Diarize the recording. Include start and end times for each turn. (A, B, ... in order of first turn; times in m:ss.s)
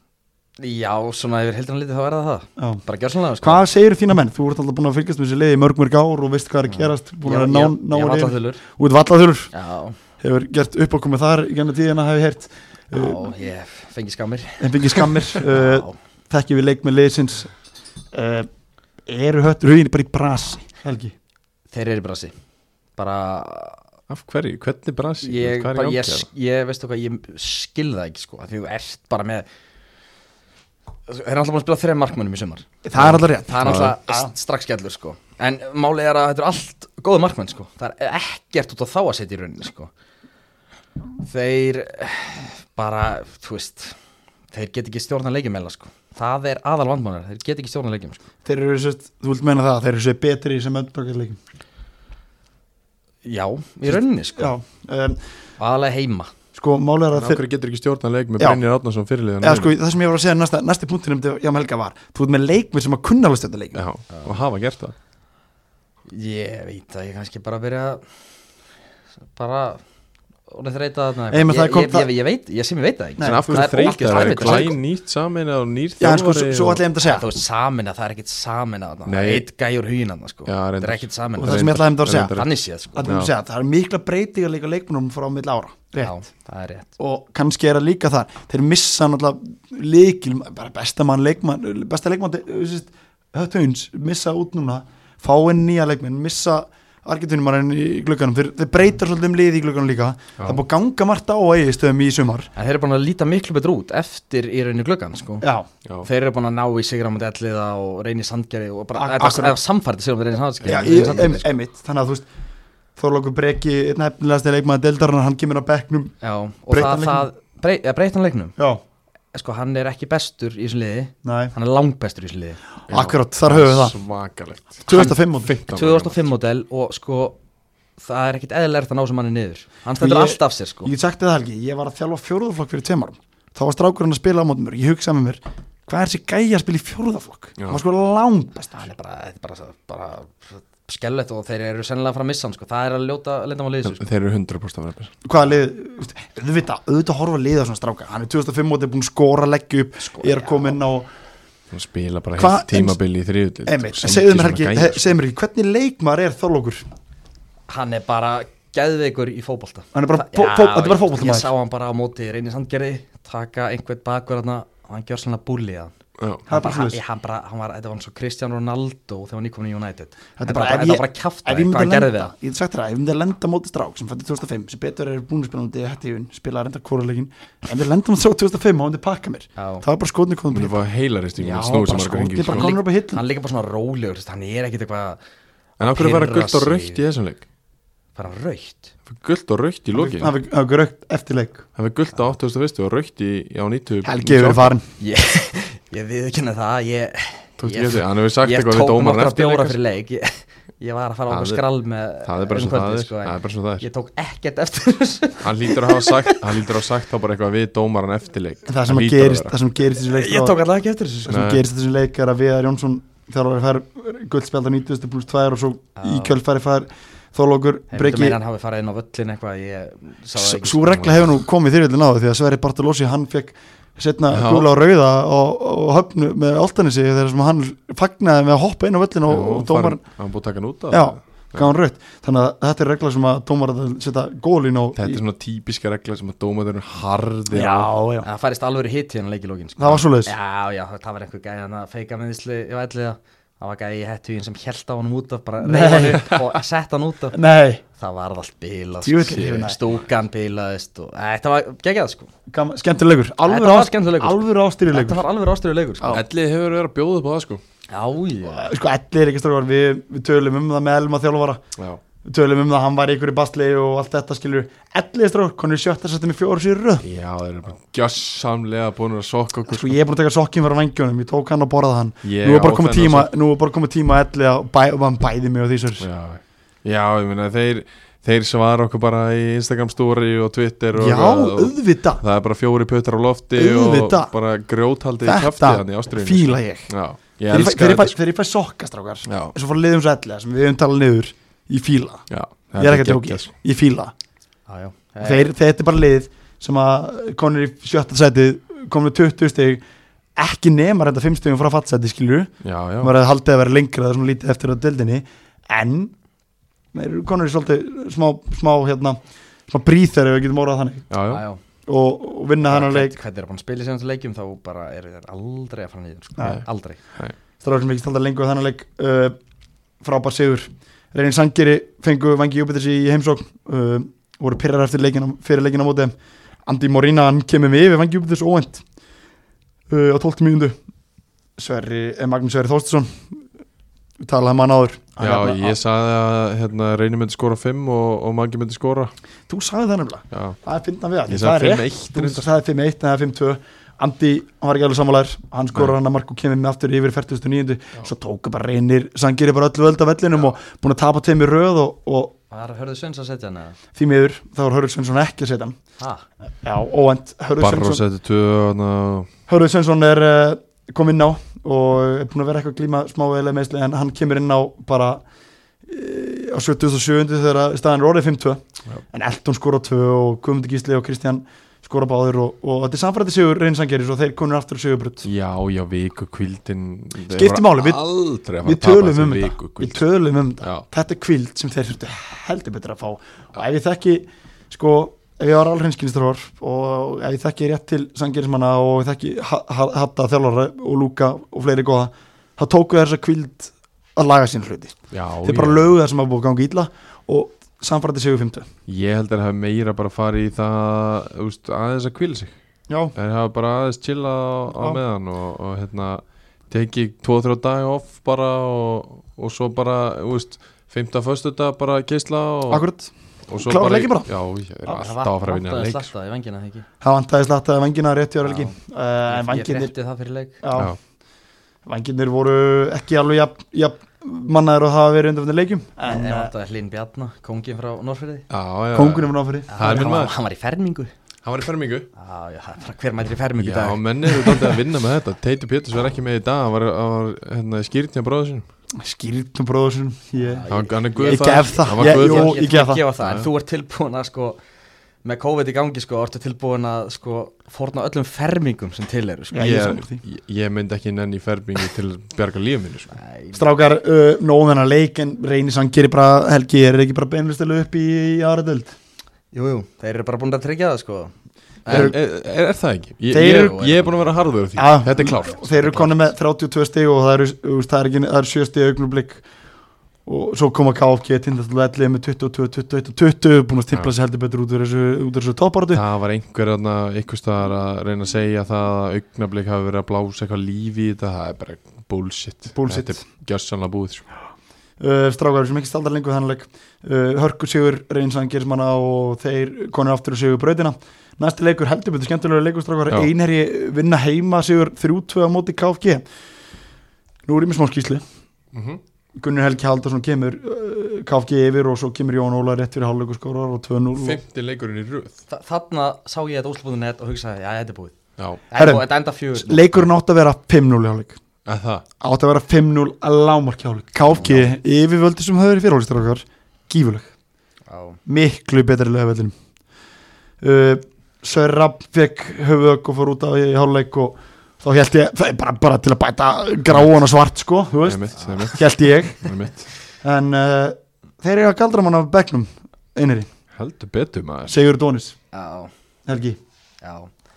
0:00.6-0:03.6 A
0:03.4-0:09.5 B
0:06.7-0:08.6 A
0:09.5-0:10.0 A
0:10.2-0:13.3 B
0:12.9-0:16.0 A
0:14.6-0:17.5 B
0:18.1-0:18.5 B
0:19.1-0:21.1 B
0:21.7-0:22.3 A
0:23.0-0:23.8 A
0:24.1-0:26.3 C
0:25.2-0:29.5 A
0:31.1-0:39.9 A
0:32.8-0:34.3 B
0:33.0-0:34.0 C
0:41.2-0:44.0 A
0:44.5-0:48.2 A
0:48.4-0:51.4 B
0:53.2-0:54.5 A
0:54.4-0:55.2 B
0:55.6-0:56.3 A
0:56.5-0:57.4 B
0:57.1-0:59.8 C
0:59.4-1:03.8 B
1:03.7-1:05.0 C
1:04.1-1:04.4 A
1:06.1-1:08.0 A
1:09.4-1:09.8 A
1:10.5-1:14.7 A
1:11.3-1:12.1 B
1:13.2-1:14.8 B
1:13.2-1:16.8 C
1:16.0-1:17.2 B
1:17.0-1:23.1 A
1:19.1-1:19.4 C
1:20.5-1:22.4 C
1:21.4-1:22.4 B
1:23.0-1:26.2 B
1:23.0-1:23.3 C
1:26.0-1:26.9 A
1:27.0-1:42.5 B
1:42.6-1:45.5 A
1:45.4-1:45.7 B
1:46.0-1:51.4 A
1:49.0-1:49.6 B
1:50.7-1:52.2 B
1:50.7-1:51.1 C
1:53.0-1:56.2 B
1:56.2-1:58.6 A
1:56.7-1:57.3 B
1:59.3-2:02.6 A
2:01.2-2:01.5 B
2:02.9-2:04.0 B
2:02.9-2:06.3 C
2:04.9-2:05.5 B
2:05.7-2:07.4 A
2:08.0-2:10.9 A
2:10.0-2:18.9 B
2:18.8-2:24.0 A
2:23.8-2:25.1 C
2:25.2-2:31.1 B
2:30.0-2:30.8 A
2:31.7-2:35.2 C
2:32.4-2:33.0 B
2:33.6-2:36.8 B
2:37.7-2:45.9 A
2:39.9-2:41.5 B
2:46.2-2:46.4 C
2:46.5-2:47.0 B
2:46.5-2:52.3 A
2:50.4-3:00.8 B
2:59.6-2:59.8 A
3:00.5-3:02.7 C
3:01.4-3:03.2 B
3:02.4-3:05.2 A
3:05.8-3:07.0 A
3:05.8-3:07.4 C
3:08.2-3:08.9 A
3:09.1-3:10.3 C
3:09.9-3:11.7 B
3:11.8-3:14.8 C
3:14.0-3:14.9 B
3:15.0-3:26.6 A
3:17.6-3:19.8 C
3:21.3-3:21.6 C
3:22.2-3:23.9 C
3:25.4-3:29.6 C
3:28.7-3:30.6 B
3:30.0-3:31.4 A
3:31.3-3:38.4 B
3:31.3-3:31.6 C
3:36.0-3:36.4 A
3:37.9-3:41.3 A
3:40.4-3:50.0 B
3:44.3-3:44.7 C
3:49.3-3:51.7 C
3:50.9-3:55.2 B
3:55.0-3:57.9 C
3:57.5-3:58.3 B
3:58.2-4:07.4 A
3:59.8-4:00.3 B
4:05.6-4:06.4 B
4:07.3-4:07.8 B
4:07.9-4:12.3 A
4:09.0-4:09.8 B
4:12.5-4:15.2 B
4:13.5-4:16.2 A
4:16.1-4:17.6 C
4:17.9-4:18.7 A
4:18.5-4:21.6 B
4:22.2-4:27.0 B
4:27.0-4:30.0 C
4:29.7-4:36.1 B
4:32.2-4:33.3 C
4:36.0-4:48.2 C
4:41.0-4:42.2 B
4:43.6-4:44.3 B
4:45.2-4:46.9 B
4:47.5-4:52.3 B
4:49.3-4:49.5 C
4:52.3-4:53.5 C
4:52.8-4:54.1 B
4:54.7-4:55.5 A
4:55.2-4:59.8 B
5:00.4-5:06.1 B
5:02.6-5:03.1 C
5:06.9-5:11.1 B
5:11.1-5:11.4 C
5:11.3-5:11.6 A
5:11.9-5:13.2 B
5:12.6-5:17.0 A
5:16.4-5:16.6 B
5:17.6-5:19.4 B
5:20.0-5:26.1 B
5:26.7-5:28.8 B
5:29.9-5:30.8 B
5:31.6-5:33.3 B
5:34.2-5:35.8 B
5:35.2-5:39.1 C
5:39.5-5:52.3 B
5:40.3-5:40.6 C
5:41.3-5:42.5 C
5:52.5-5:53.8 A
5:54.0-5:55.8 B
5:56.0-5:56.2 A
5:56.6-5:58.0 B
5:57.6-5:59.3 C
5:59.5-6:05.2 B
6:05.9-6:08.6 B
6:09.1-6:15.3 B
6:15.2-6:20.0 C
6:17.3-6:18.0 B
6:18.6-6:38.7 B
6:35.1-6:35.9 C
6:38.9-6:42.5 C
6:42.9-6:43.2 B
6:43.2-6:52.9 C
6:44.8-6:45.0 B
6:52.7-6:54.3 B
6:53.5-6:56.1 C
6:54.9-6:56.9 A
6:57.0-6:59.9 B
6:58.4-6:58.8 A
6:59.3-7:00.6 A
7:00.6-7:01.0 B
7:01.9-7:06.5 B
7:06.0-7:08.5 A
7:08.5-7:10.3 C
7:08.9-7:09.7 B
7:09.7-7:11.1 A
7:11.4-7:12.1 C
7:12.2-7:14.8 A
7:13.6-7:18.6 C
7:19.0-7:23.0 B
7:20.4-7:24.6 A
7:20.7-7:22.6 C
7:23.2-7:23.5 C
7:25.2-7:29.9 A
7:29.5-7:30.2 B
7:29.6-7:33.1 C
7:33.1-7:33.7 A
7:33.5-7:39.0 B
7:39.5-7:41.3 A
7:41.8-7:42.1 A
7:41.9-7:42.2 B
7:41.9-7:46.0 C
7:43.3-7:43.8 B
7:43.4-7:44.3 A
7:44.8-7:49.4 B
7:45.6-7:46.1 A
7:50.3-7:56.0 B
7:55.9-8:04.3 C
8:02.7-8:03.2 B
8:05.0-8:16.2 B
8:17.5-8:18.2 B
8:18.7-8:19.0 C
8:19.4-8:24.4 B
8:24.2-8:25.4 C
8:25.5-8:28.2 A
8:28.7-8:30.1 A
8:28.7-8:31.4 B
8:31.7-8:32.0 C
8:32.2-8:37.3 B
8:34.4-8:34.7 A
8:37.9-8:38.2 A
8:38.3-8:39.5 B
8:40.6-8:49.5 B
8:48.0-8:49.9 C
8:50.2-8:53.5 B
8:53.7-8:54.8 C
8:54.7-8:55.4 B
8:55.5-8:55.9 A
8:56.3-8:56.6 B
8:57.0-8:57.3 A